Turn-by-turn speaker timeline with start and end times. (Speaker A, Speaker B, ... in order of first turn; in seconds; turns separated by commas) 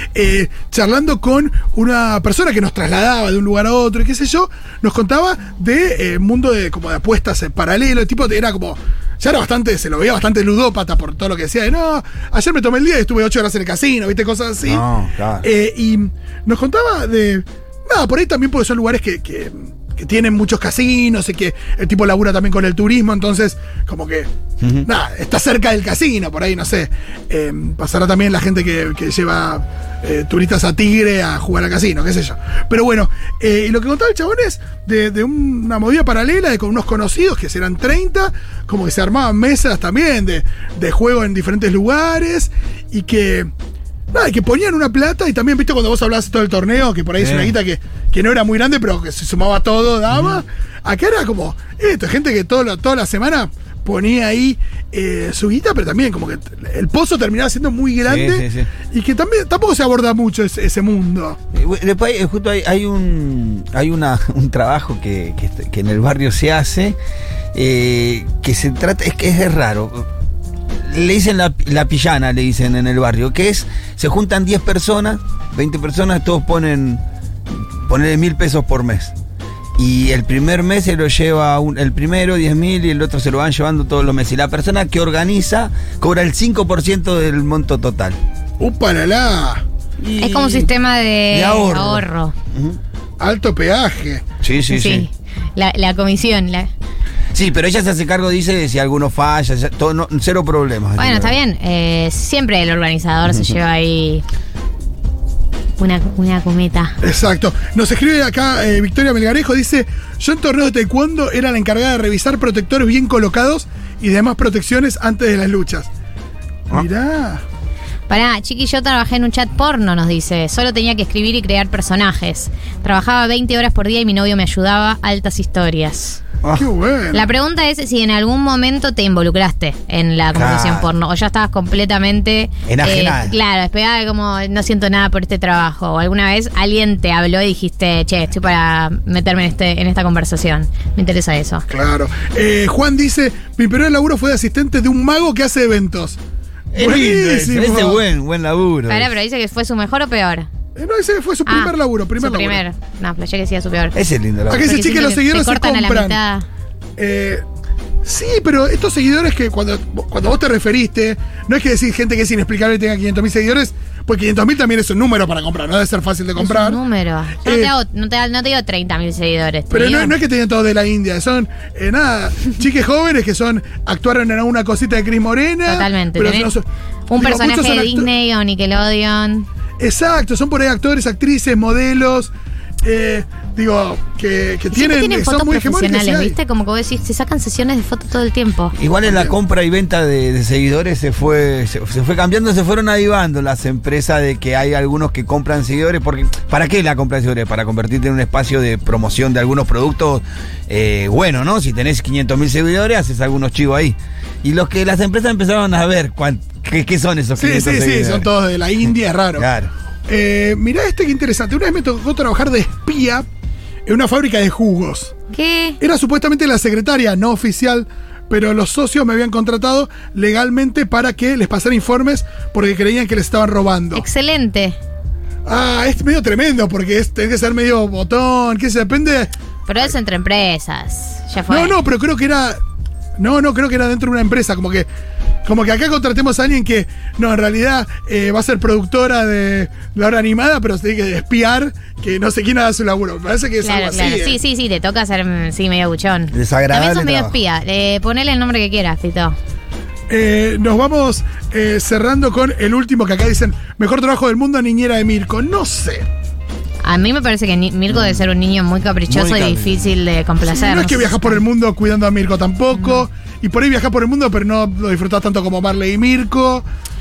Speaker A: 0.1-14.9, Speaker B: 14.7-15.5, Speaker A: 15.4-24.3, Speaker B: 24.6-24.9, Speaker A: 24.9-43.5, Speaker A: 44.1-61.4, Speaker B: 47.2-47.5, Speaker B: 50.1-50.4, Speaker B: 58.1-58.7, Speaker B: 61.5-67.0, Speaker B: 67.5-70.1, Speaker B: 70.8-79.1, Speaker B: 79.8-88.2, Speaker A: 88.6-89.7, Speaker B: 90.0-90.7, Speaker C: 90.2-92.3, Speaker B: 91.3-92.8, Speaker A: 93.2-94.2, Speaker B: 94.4-95.1, Speaker C: 94.7-96.7, Speaker B: 97.3-101.3, Speaker C: 101.0-104.2, Speaker C: 105.8-107.0, Speaker A: 107.0-115.9, Speaker A: 116.7-117.4, Speaker C: 118.1-126.2, Speaker A: 126.5-127.3, Speaker C: 127.1-141.7, Speaker B: 130.3-130.9, Speaker B: 132.7-133.3, Speaker A: 141.7-146.2, Speaker B: 146.7-149.1, Speaker A: 146.8-148.0, Speaker C: 148.9-150.5, Speaker A: 150.8-152.6, Speaker C: 151.5-154.0, Speaker B: 153.9-154.7, Speaker A: 154.5-156.2, Speaker C: 154.6-156.5, Speaker A: 157.0-157.4, Speaker A: 158.0-166.8, Speaker C: 166.4-170.2, Speaker A: 167.4-167.7, Speaker A: 169.7-176.7, Speaker C: 175.7-176.5, Speaker C: 177.1-179.5, Speaker A: 177.2-178.1, Speaker A: 179.8-182.3, Speaker A: 182.8-186.4, Speaker C: 184.7-188.8, Speaker B: 188.8-208.3, Speaker A: 189.1-189.3, Speaker A: 207.4-209.5, Speaker B: 209.4-209.7, Speaker A: 210.1-213.3, Speaker A: 213.9-215.2, Speaker C: 215.3-215.8, Speaker A: 215.8-224.1, Speaker C: 223.9-224.8, Speaker A: 225.5-229.3, Speaker C: 229.7-231.8, Speaker A: 231.5-232.6, Speaker A: 233.2-234.9, Speaker A: 235.4-244.4, Speaker C: 243.6-249.4, Speaker B: 246.3-247.4, Speaker A: 250.1-256.1, Speaker C: 256.8-261.4, Speaker B: 257.9-258.2, Speaker B: 259.1-259.8, Speaker A: 260.4-266.6, Speaker C: 262.7-263.0